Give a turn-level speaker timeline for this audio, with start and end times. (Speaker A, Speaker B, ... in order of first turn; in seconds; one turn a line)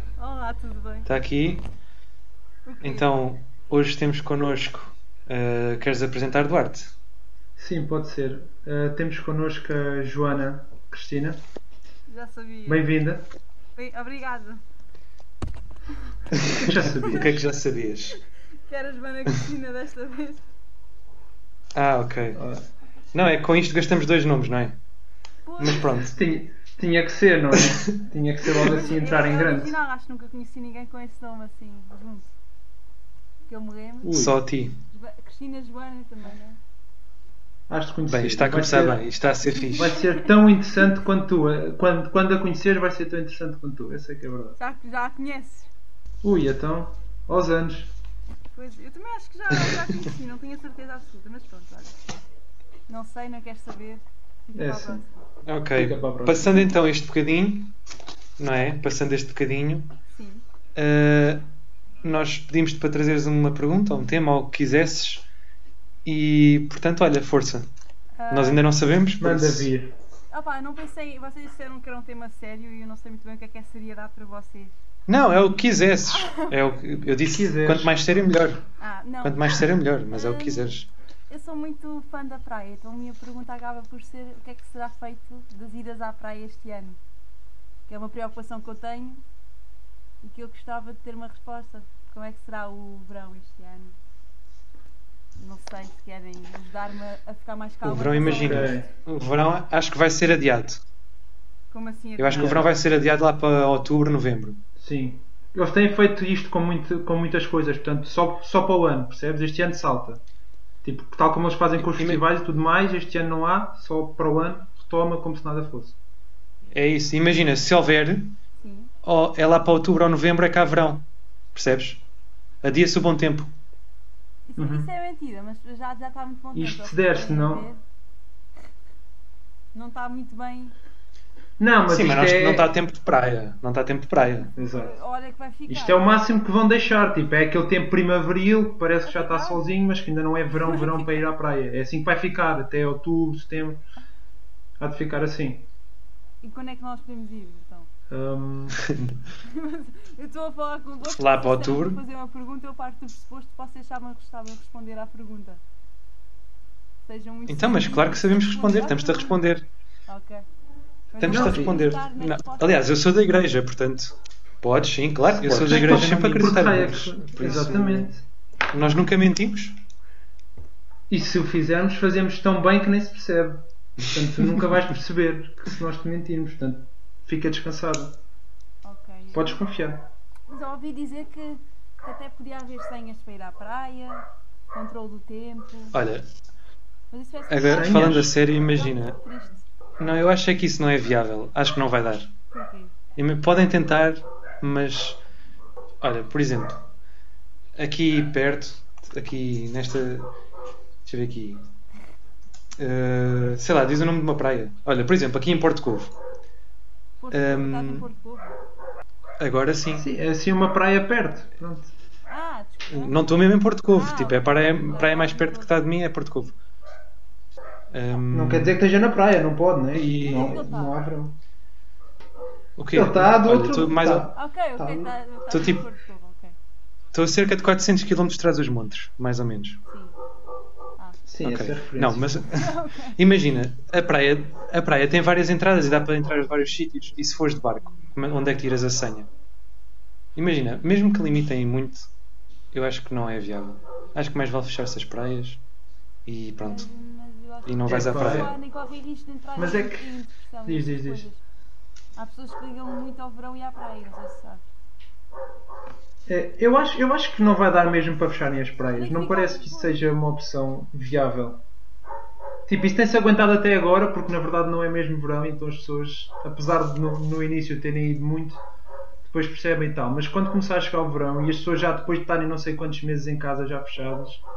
Speaker A: 0.2-1.1
Speaker B: 1.1-1.6
Speaker A: 2.6-3.2
Speaker B: 2.8-6.9
Speaker C: 7.6-11.4
Speaker A: 12.1-12.9
Speaker C: 12.7-13.2
Speaker A: 13.7-14.6
Speaker B: 16.4-18.2
Speaker C: 16.4-17.4
Speaker A: 18.6-20.4
Speaker B: 21.7-22.4
Speaker C: 22.3-22.6
Speaker B: 23.1-24.8
Speaker A: 25.4-25.9
Speaker B: 25.6-26.2
Speaker C: 26.0-29.8
Speaker A: 28.6-32.3
Speaker A: 33.5-34.3
Speaker C: 34.0-34.3
Speaker B: 34.1-34.8
Speaker A: 34.9-36.6
Speaker C: 37.7-39.0
Speaker B: 38.0-40.0
Speaker A: 39.5-40.3
Speaker C: 39.8-44.6
Speaker A: 44.6-45.7
Speaker C: 46.2-47.9
Speaker A: 48.5-52.0
Speaker A: 52.9-55.2
Speaker C: 54.5-55.0
Speaker B: 55.5-57.7
Speaker C: 55.8-56.7
Speaker B: 58.4-59.9
Speaker A: 60.1-60.4
Speaker B: 60.8-61.4
Speaker B: 62.0-65.2
Speaker B: 66.0-67.7
Speaker A: 68.2-68.6
Speaker B: 68.3-69.7
Speaker C: 69.2-69.9
Speaker A: 70.3-74.7
Speaker B: 75.1-78.6
Speaker A: 76.1-76.6
Speaker C: 77.2-77.9
Speaker A: 78.8-80.7
Speaker B: 79.2-80.9
Speaker A: 81.3-87.0
Speaker A: 87.9-89.2
Speaker A: 90.2-94.0
Speaker A: 95.4-98.8
Speaker B: 97.8-100.8
Speaker C: 98.2-98.8
Speaker A: 101.7-102.6
Speaker B: 102.2-104.6
Speaker C: 102.3-102.7
Speaker C: 104.8-110.2
Speaker C: 110.8-116.0
Speaker B: 111.8-112.2
Speaker B: 116.7-118.4
Speaker A: 118.6-118.9
Speaker B: 119.0-122.0
Speaker B: 122.6-123.5
Speaker A: 124.5-127.8
Speaker C: 124.5-124.9
Speaker C: 126.5-127.7
Speaker A: 129.7-130.7
Speaker C: 131.6-132.7
Speaker B: 131.9-134.5
Speaker A: 134.5-136.2
Speaker C: 134.6-134.9
Speaker C: 135.7-143.8
Speaker A: 139.0-139.6
Speaker A: 140.5-141.2
Speaker C: 144.8-145.7
Speaker A: 146.4-147.9
Speaker C: 148.1-148.8
Speaker A: 149.4-155.6
Speaker B: 151.1-152.0
Speaker A: 157.0-159.4
Speaker B: 157.5-159.6
Speaker A: 160.1-160.4
Speaker A: 161.1-163.1
Speaker B: 161.2-168.1
Speaker C: 161.2-161.8
Speaker C: 165.2-168.2
Speaker B: 168.7-169.8
Speaker C: 171.1-178.2
Speaker A: 178.8-179.6
Speaker C: 179.3-180.1
Speaker A: 180.5-186.0
Speaker B: 185.9-186.3
Speaker A: 187.1-189.7
Speaker B: 187.5-189.2
Speaker C: 187.6-188.3
Speaker B: 190.0-192.3
Speaker A: 192.5-192.9
Speaker B: 193.2-195.2
Speaker B: 196.0-196.8
Speaker B: 197.8-200.3
Speaker B: 201.1-201.6
Speaker B: 202.8-206.1
Speaker A: 207.2-208.6
Speaker B: 207.3-208.1
Speaker B: 209.4-210.1
Speaker C: 209.9-211.9
Speaker A: 212.3-215.9
Speaker B: 212.9-216.6
Speaker B: 217.9-218.8
Speaker C: 218.3-221.4
Speaker B: 219.9-220.6
Speaker A: 220.1-221.0
Speaker B: 222.8-224.3
Speaker C: 222.9-225.2
Speaker A: 224.3-226.6
Speaker B: 225.5-225.8
Speaker B: 227.1-229.8
Speaker A: 229.9-230.2
Speaker A: 231.0-231.2
Speaker C: 231.3-232.4
Speaker B: 231.4-239.3
Speaker A: 232.5-233.2
Speaker B: 240.3-242.1
Speaker B: 242.7-245.6
Speaker B: 246.2-246.9
Speaker A: 246.6-251.4
Speaker B: 247.7-248.5
Speaker C: 247.8-248.6
Speaker C: 249.6-250.1
Speaker C: 250.7-251.3
Speaker A: 252.2-254.6
Speaker C: 256.3-261.6
Speaker A: 258.9-260.0
Speaker C: 262.7-268.6
Speaker C: 269.2-274.4